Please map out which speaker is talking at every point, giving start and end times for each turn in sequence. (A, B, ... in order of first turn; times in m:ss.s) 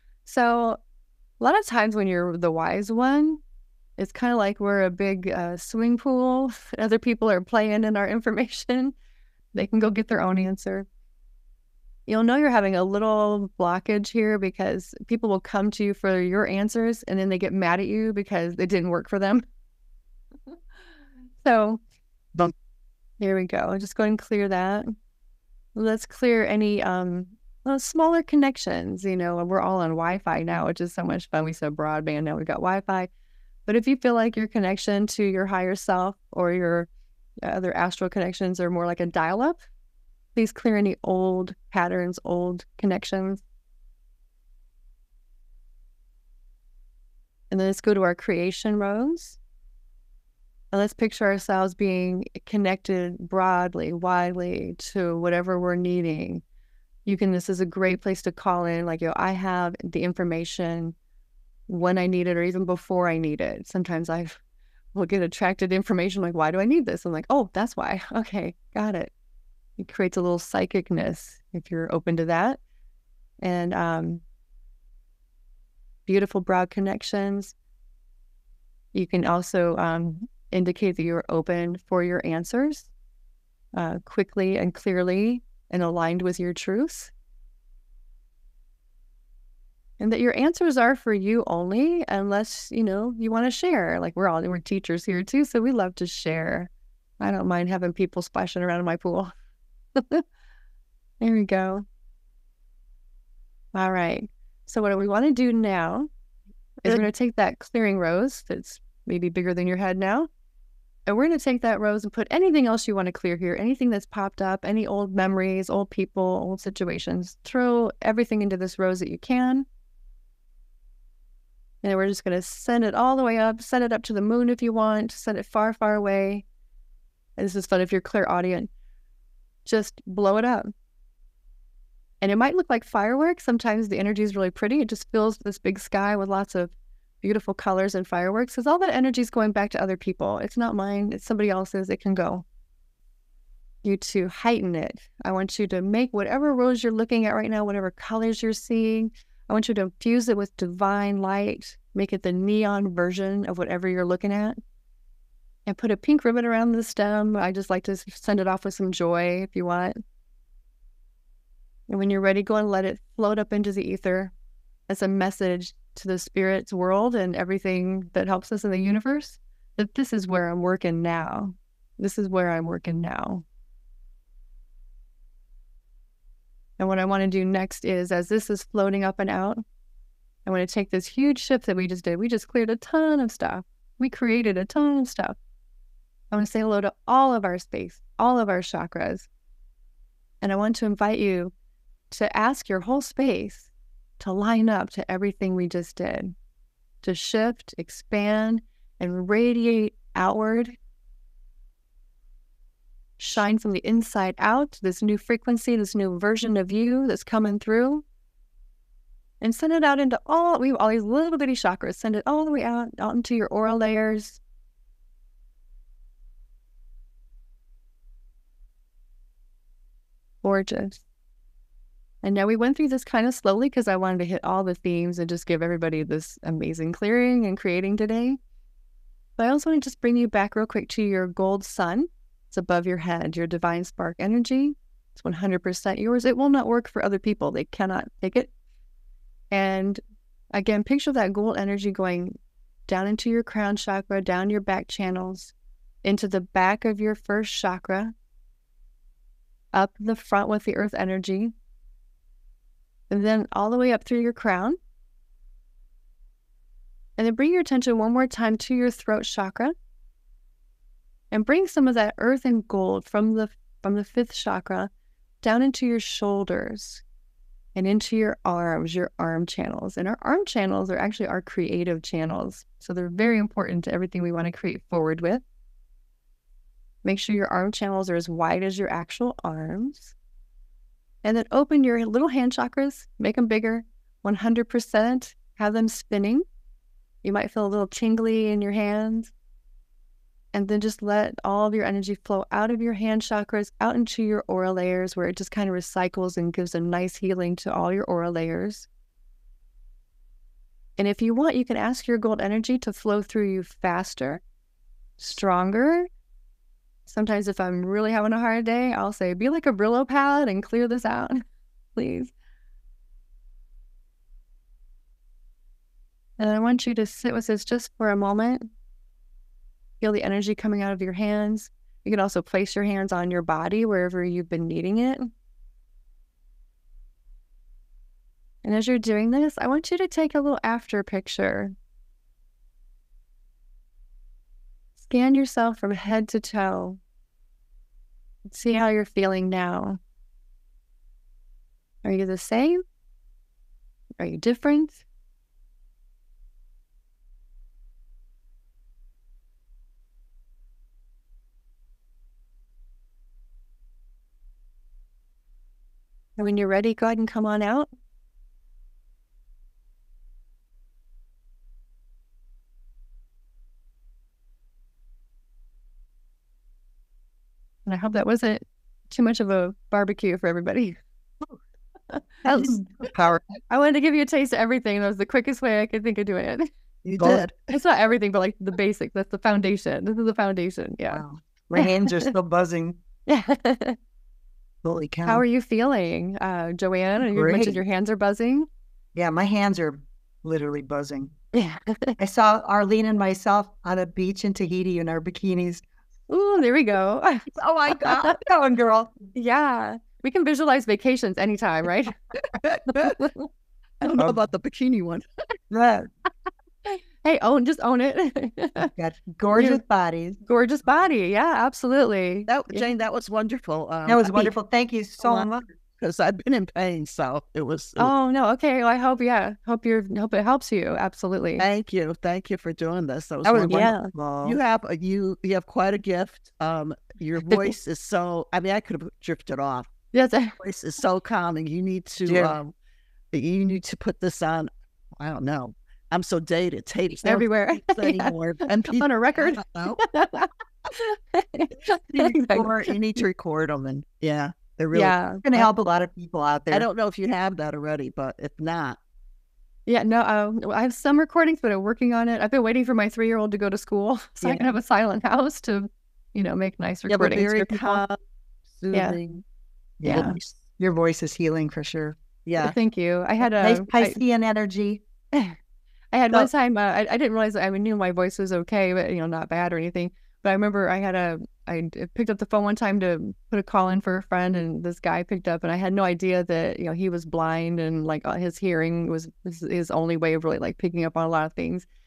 0:00.2-0:00.8 A
0:01.4-0:03.4 A
0:04.0-0:08.9 A
0:09.5-0:10.8 A
0:12.1-0:19.4 A
0:21.4-0:21.8 A
0:23.2-0:24.9 A
0:25.7-0:33.1 A
0:33.6-0:36.9 A
0:37.4-0:39.6 A
0:40.3-0:43.4 A
0:47.5-0:49.4 A
0:50.7-0:56.4 A
0:57.0-1:00.9 A
1:01.7-1:04.4 A
1:04.9-1:09.1 A
1:09.8-1:12.6 A
1:13.4-1:14.2 A
1:16.0-1:17.5 A
1:18.9-1:22.9 A
1:23.7-1:27.1 A
1:30.0-1:39.3 A
1:40.0-1:40.2 A
1:41.2-1:41.8 A
1:43.7-1:46.1 A
1:46.8-1:50.3 A
1:51.1-1:59.6 A
2:01.8-2:06.4 A
2:07.4-2:08.7 A
2:09.6-2:10.7 A
2:12.2-2:22.4 A
2:23.8-2:34.6 A
2:35.6-2:40.0 A
2:41.9-2:44.3 A
2:44.9-2:53.4 A
2:56.8-2:59.6 A
3:00.4-3:05.4 A
3:06.3-3:09.3 A
3:10.4-3:11.5 A
3:12.1-3:16.3 A
3:17.0-3:20.8 A
3:23.2-3:28.0 A
3:29.4-3:34.4 A
3:40.4-3:41.0 A
3:42.2-3:48.4 A
3:49.4-3:58.5 A
3:59.5-4:00.0 A
4:00.5-4:02.3 A
4:02.9-4:05.5 A
4:06.0-4:08.1 A
4:09.7-4:11.5 A
4:13.1-4:14.8 A
4:17.2-4:19.7 A
4:21.3-4:24.9 A
4:25.4-4:27.0 A
4:27.7-4:35.4 A
4:37.0-4:40.1 A
4:41.2-4:46.4 A
4:47.2-4:49.3 A
4:50.5-4:58.9 A
5:01.0-5:04.4 A
5:05.2-5:06.1 A
5:07.0-5:11.4 A
5:12.0-5:12.3 A
5:16.4-5:18.7 A
5:20.0-5:25.3 A
5:28.6-5:31.7 A
5:35.0-5:37.0 A
5:38.5-5:40.0 A
5:42.0-5:42.8 A
5:44.2-5:45.0 A
5:56.4-5:57.9 A
6:07.8-6:11.0 A
6:12.1-6:12.6 A
6:12.4-6:13.4 B
6:12.6-6:13.2 C
6:13.7-6:16.7 A
6:17.0-6:17.5 B
6:17.1-6:17.5 C
6:17.7-6:21.2 A
6:21.1-6:23.0 C
6:21.8-6:22.3 A
6:23.3-6:24.0 A
6:24.8-6:25.4 C
6:25.2-6:28.7 A
6:27.2-6:27.8 C
6:29.1-6:31.3 C
6:31.5-6:32.2 A
6:32.2-6:35.8 C
6:36.3-6:38.3 A
6:37.5-6:38.4 B
6:38.1-6:39.2 C
6:39.3-6:42.1 A
6:42.6-6:43.2 B
6:42.9-6:43.5 A
6:44.0-6:45.2 B
6:45.7-6:46.1 C
6:46.8-6:48.9 A
6:48.8-6:50.4 C
6:49.6-6:49.8 A
6:50.4-6:52.9 A
6:52.5-6:54.5 B
6:54.0-6:55.6 C
6:56.0-6:58.1 B
6:58.0-7:01.6 A
7:01.6-7:09.9 B
7:03.4-7:04.6 C
7:03.7-7:04.1 A
7:10.1-7:10.6 A
7:10.6-7:12.7 B
7:12.2-7:12.6 C
7:13.3-7:20.0 B
7:17.2-7:22.9 A
7:22.0-7:25.2 B
7:24.9-7:25.4 A
7:25.4-7:26.9 C
7:26.7-7:29.0 B
7:29.8-7:38.0 A
7:34.4-7:34.7 C
7:37.1-7:38.2 B
7:38.7-7:39.4 B
7:38.9-7:39.2 A
7:40.0-7:42.2 C
7:40.0-7:40.4 A
7:40.1-7:40.5 B
7:42.4-7:42.7 B
7:42.6-7:44.2 A
7:43.6-7:45.0 C
7:46.1-8:01.9 A